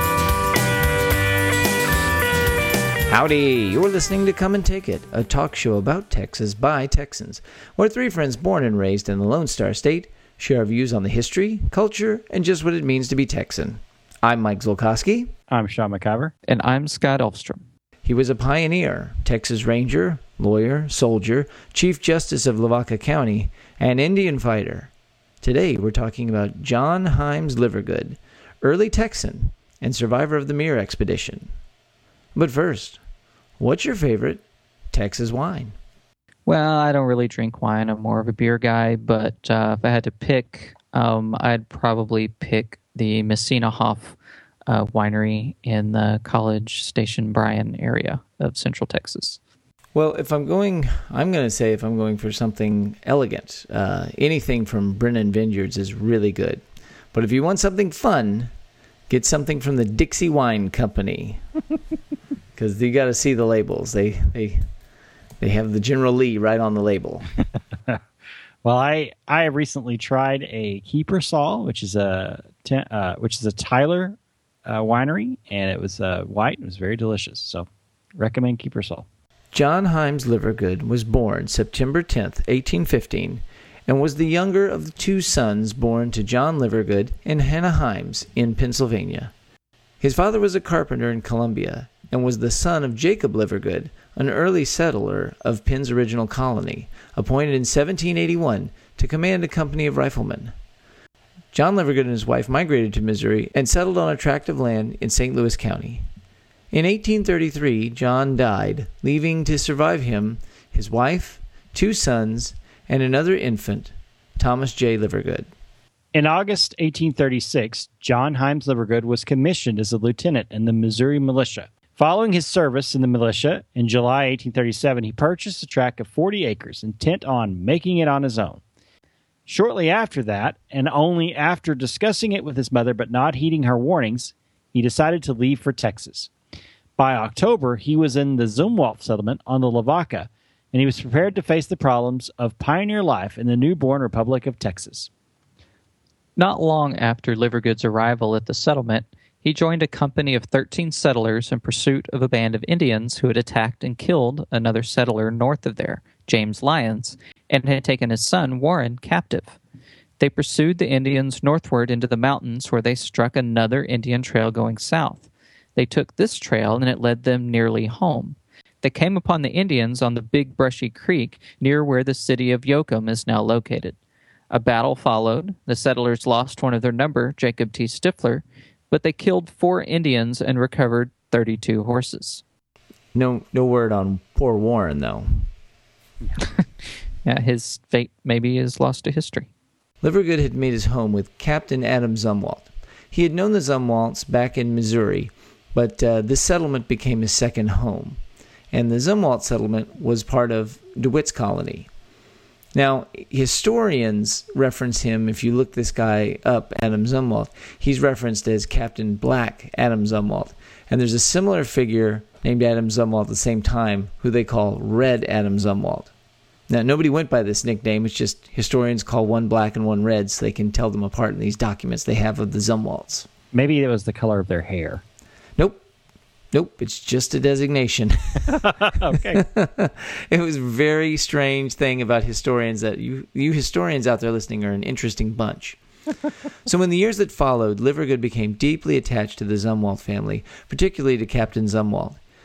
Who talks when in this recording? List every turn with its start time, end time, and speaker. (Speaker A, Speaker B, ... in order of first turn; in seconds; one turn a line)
Speaker A: 3.1-15.3
Speaker B: 15.5-16.3
Speaker C: 16.5-17.6
Speaker A: 18.1-31.5
Speaker A: 32.4-33.0
Speaker A: 33.6-35.8
Speaker C: 36.5-44.2
Speaker C: 44.7-49.4
Speaker A: 50.0-56.6
Speaker A: 57.1-58.5
Speaker A: 59.1-61.4
Speaker A: 62.5-64.6
Speaker A: 65.4-67.3
Speaker B: 68.6-79.0
Speaker A: 79.5-89.3
Speaker A: 90.0-100.5
Speaker A: 101.5-106.0
Speaker A: 106.7-115.5
Speaker B: 116.1-128.6
Speaker B: 129.5-136.3
Speaker B: 137.0-145.1
Speaker C: 146.4-159.6
Speaker C: 160.2-174.0
Speaker C: 174.5-182.4
Speaker A: 183.1-185.5
Speaker C: 187.2-189.5
Speaker A: 190.0-198.2
Speaker A: 198.7-201.9
Speaker A: 202.7-216.1
Speaker A: 216.7-223.3
Speaker B: 223.5-225.0
Speaker A: 226.5-228.7
Speaker B: 228.6-229.4
Speaker A: 229.3-235.8
Speaker A: 236.7-242.2